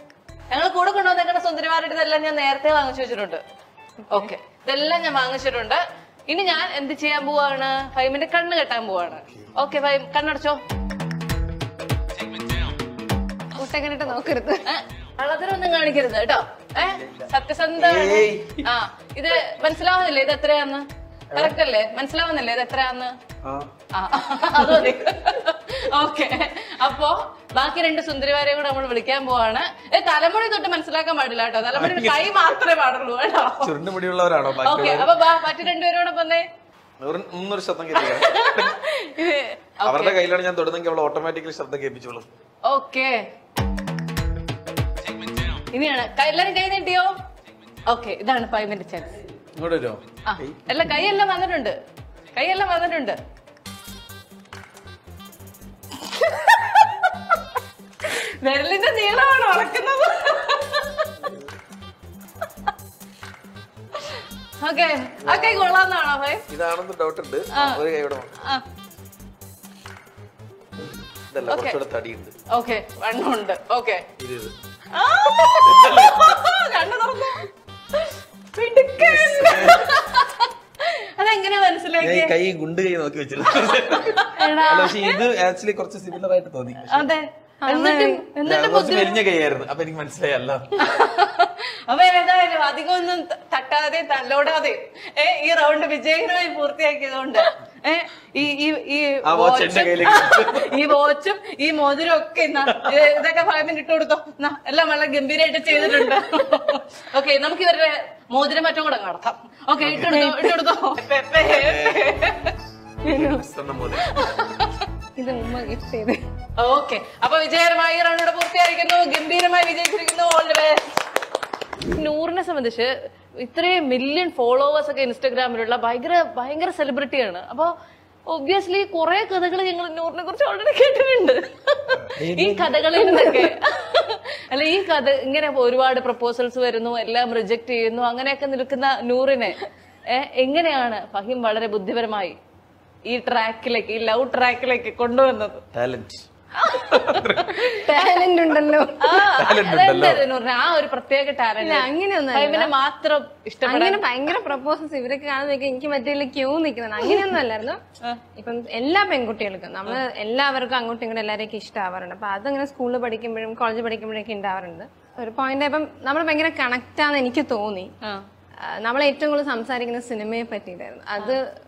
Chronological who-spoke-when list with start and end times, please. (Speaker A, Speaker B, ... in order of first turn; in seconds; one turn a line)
Speaker A: 0.5-3.4
Speaker A: 4.1-10.6
Speaker B: 13.5-14.7
Speaker A: 14.6-23.1
Speaker C: 16.8-18.7
Speaker C: 23.4-23.7
Speaker A: 23.9-33.8
Speaker C: 31.7-32.5
Speaker C: 33.6-35.1
Speaker A: 34.6-36.4
Speaker C: 37.0-38.8
Speaker A: 37.9-40.2
Speaker C: 39.8-42.3
Speaker A: 42.7-43.2
Speaker A: 45.6-47.1
Speaker A: 47.9-49.1
Speaker C: 49.5-50.7
Speaker A: 50.2-51.7
Speaker A: 52.3-53.2
Speaker A: 55.9-61.3
Speaker A: 64.0-66.4
Speaker C: 65.2-65.8
Speaker C: 66.5-68.3
Speaker A: 67.5-67.8
Speaker A: 68.4-68.6
Speaker C: 71.3-72.3
Speaker A: 71.5-71.8
Speaker A: 72.5-74.0
Speaker C: 74.2-74.5
Speaker A: 74.9-82.3
Speaker C: 75.6-76.3
Speaker C: 78.9-79.9
Speaker C: 82.0-87.1
Speaker A: 84.0-85.2
Speaker A: 86.9-89.2
Speaker B: 87.6-88.3
Speaker C: 88.4-90.9
Speaker A: 90.8-112.6
Speaker C: 99.2-100.8
Speaker C: 102.7-103.2
Speaker C: 109.8-110.3
Speaker B: 110.1-110.6
Speaker C: 111.4-112.2
Speaker C: 113.0-114.2
Speaker B: 113.1-113.4
Speaker A: 114.0-114.9
Speaker B: 115.2-116.2
Speaker A: 116.6-120.9
Speaker A: 121.8-127.7
Speaker A: 128.3-142.3
Speaker C: 131.9-132.9
Speaker B: 133.1-133.5
Speaker A: 143.1-145.6
Speaker C: 145.7-147.8
Speaker A: 146.6-148.0
Speaker B: 147.6-149.3
Speaker A: 149.0-154.1
Speaker C: 149.3-150.3
Speaker B: 151.6-152.7
Speaker B: 153.6-157.8
Speaker A: 157.0-157.3
Speaker B: 158.3-167.9
Speaker B: 168.7-171.5